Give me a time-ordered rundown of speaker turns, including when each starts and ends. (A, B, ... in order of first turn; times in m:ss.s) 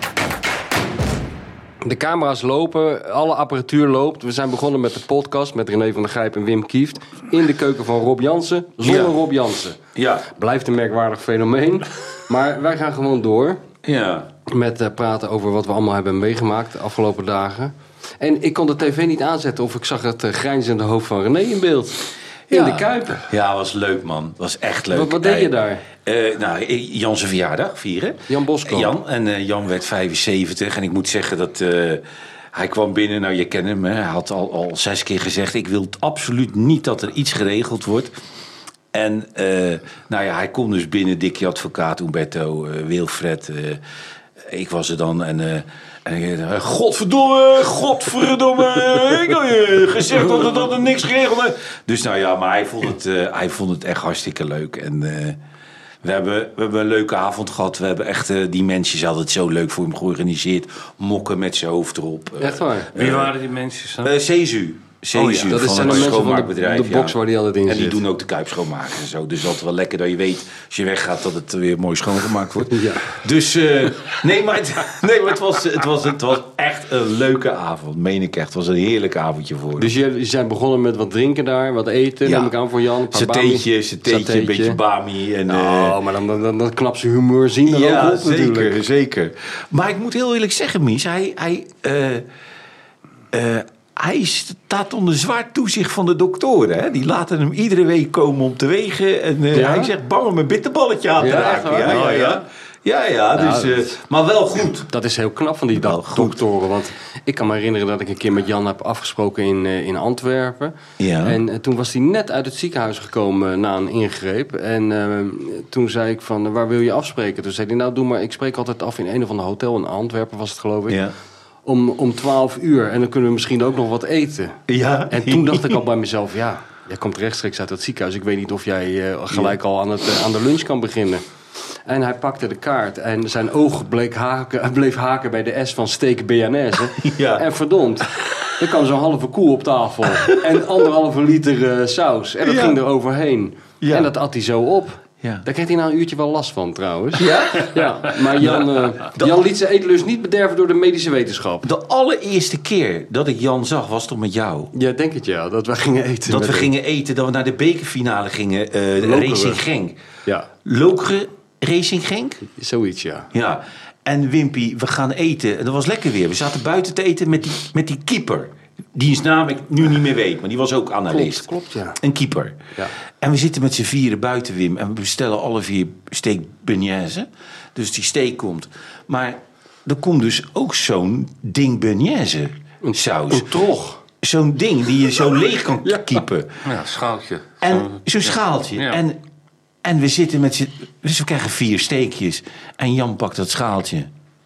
0:01.8-0:13.6 A
0:08.8-0:09.1 B
0:09.9-0:10.2 B
0:13.8-0:14.3 B
0:14.4-0:23.3 A
0:22.5-0:38.1 B
0:24.9-0:25.8 A
0:28.3-0:28.9 A
0:38.9-0:43.8 B
0:44.4-0:55.4 B
0:56.0-1:03.3 B
1:02.4-1:02.9 A
1:02.9-1:04.2 C
1:04.0-1:19.9 B
1:05.1-1:06.1 C
1:05.5-1:08.0 A
1:12.7-1:13.1 A
1:19.8-1:24.8 A
1:22.2-1:22.5 B
1:23.1-1:26.0 B
1:25.5-1:28.8 A
1:27.6-1:32.3 B
1:33.3-1:44.9 B
1:39.5-1:39.9 A
1:41.2-1:42.4 A
1:41.3-1:42.4 C
1:43.3-1:43.9 A
1:44.9-2:01.0 A
1:45.7-1:46.4 B
1:51.0-1:51.4 B
2:00.9-2:01.1 B
2:01.6-2:11.2 A
2:04.7-2:05.8 B
2:11.8-2:31.7 A
2:17.0-2:17.4 B
2:22.4-2:22.8 B
2:23.8-2:24.1 B
2:27.2-2:29.4 B
2:31.6-2:34.7 B
2:34.7-2:36.7 A
2:36.3-2:40.0 B
2:39.0-2:39.6 A
2:40.6-2:42.4 B
2:42.4-2:43.3 A
2:43.3-2:52.6 B
2:51.1-2:52.0 A
2:53.2-3:03.6 B
3:02.8-3:04.0 A
3:04.2-3:06.6 B
3:05.8-3:06.2 A
3:06.6-3:09.0 C
3:07.6-3:09.2 B
3:09.8-3:14.1 B